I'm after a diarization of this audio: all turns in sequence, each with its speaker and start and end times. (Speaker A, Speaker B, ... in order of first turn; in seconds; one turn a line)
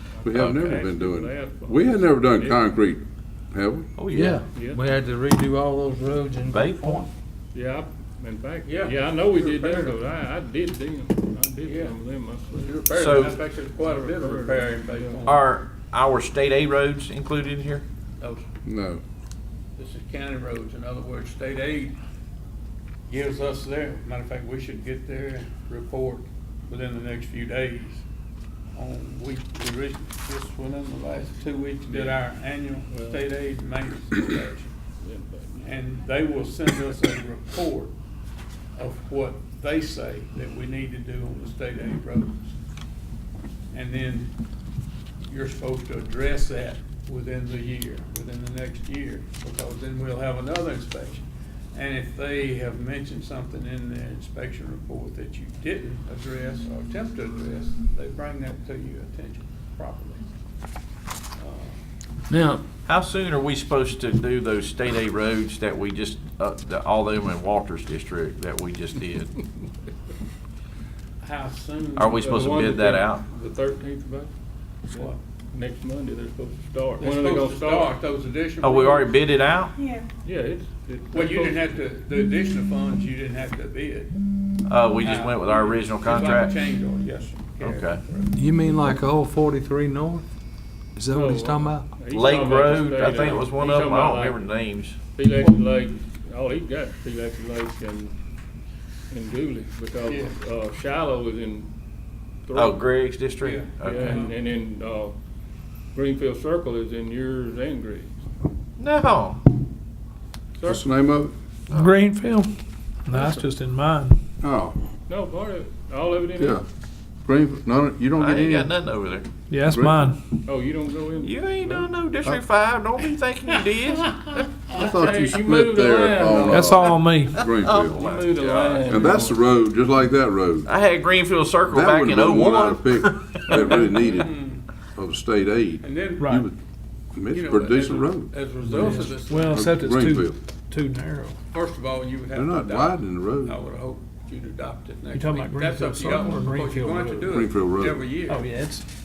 Speaker A: 0.2-2.6
Speaker B: 0.2-4.0
Speaker C: 0.4-0.6
Speaker C: 4.0-4.4
Speaker D: 4.1-7.1
Speaker A: 4.5-4.8
Speaker C: 6.5-7.0
Speaker A: 7.5-13.2
Speaker E: 8.7-10.0
Speaker E: 11.6-12.0
Speaker E: 12.5-15.5
Speaker C: 12.9-13.4
Speaker A: 13.8-15.2
Speaker C: 15.2-17.8
Speaker E: 18.2-18.4
Speaker B: 18.7-19.0
Speaker E: 19.8-22.0
Speaker E: 23.1-28.1
Speaker E: 28.7-34.7
Speaker A: 31.9-32.2
Speaker A: 32.9-33.2
Speaker A: 35.0-35.8
Speaker E: 35.6-37.9
Speaker E: 38.8-42.5
Speaker E: 43.7-44.3
Speaker E: 45.3-60.2
Speaker E: 61.4-61.8
Speaker F: 62.3-62.6
Speaker C: 62.9-69.3
Speaker E: 71.2-72.2
Speaker C: 72.0-73.2
Speaker A: 72.1-74.3
Speaker E: 74.9-75.2
Speaker A: 74.9-77.9
Speaker E: 77.0-79.2
Speaker C: 78.6-79.8
Speaker A: 80.2-81.8
Speaker E: 81.1-84.2
Speaker C: 84.7-86.5
Speaker E: 85.0-88.3
Speaker C: 87.6-88.0
Speaker D: 88.3-90.2
Speaker D: 91.0-91.9
Speaker A: 91.1-94.5
Speaker C: 92.1-95.0
Speaker A: 95.1-98.2
Speaker A: 99.1-101.7
Speaker E: 100.1-100.4
Speaker A: 102.5-102.8
Speaker C: 102.5-104.2
Speaker E: 103.4-104.3
Speaker A: 103.8-105.2
Speaker A: 105.9-108.2
Speaker C: 108.8-109.4
Speaker A: 110.6-110.9
Speaker B: 110.7-111.3
Speaker C: 111.7-112.0
Speaker F: 111.7-112.5
Speaker F: 113.1-114.2
Speaker A: 113.1-113.5
Speaker B: 114.4-114.8
Speaker A: 115.1-116.6
Speaker B: 116.4-116.7
Speaker B: 117.2-118.7
Speaker C: 118.2-119.3
Speaker F: 119.5-120.2
Speaker B: 119.7-120.1
Speaker A: 120.5-121.9
Speaker C: 121.2-124.5
Speaker A: 124.7-126.9
Speaker B: 124.7-128.0
Speaker F: 126.5-127.4
Speaker C: 126.9-129.2
Speaker A: 127.9-129.5
Speaker B: 128.9-130.7
Speaker C: 130.7-134.0
Speaker B: 131.7-134.3
Speaker E: 133.5-134.7
Speaker B: 134.9-136.5
Speaker E: 135.8-136.4
Speaker F: 136.2-136.5
Speaker B: 137.2-138.3
Speaker E: 137.3-139.6
Speaker F: 138.7-141.4
Speaker B: 139.5-140.3
Speaker E: 141.5-148.5
Speaker B: 142.3-143.6
Speaker F: 145.1-147.4
Speaker B: 147.3-148.0
Speaker F: 148.2-148.8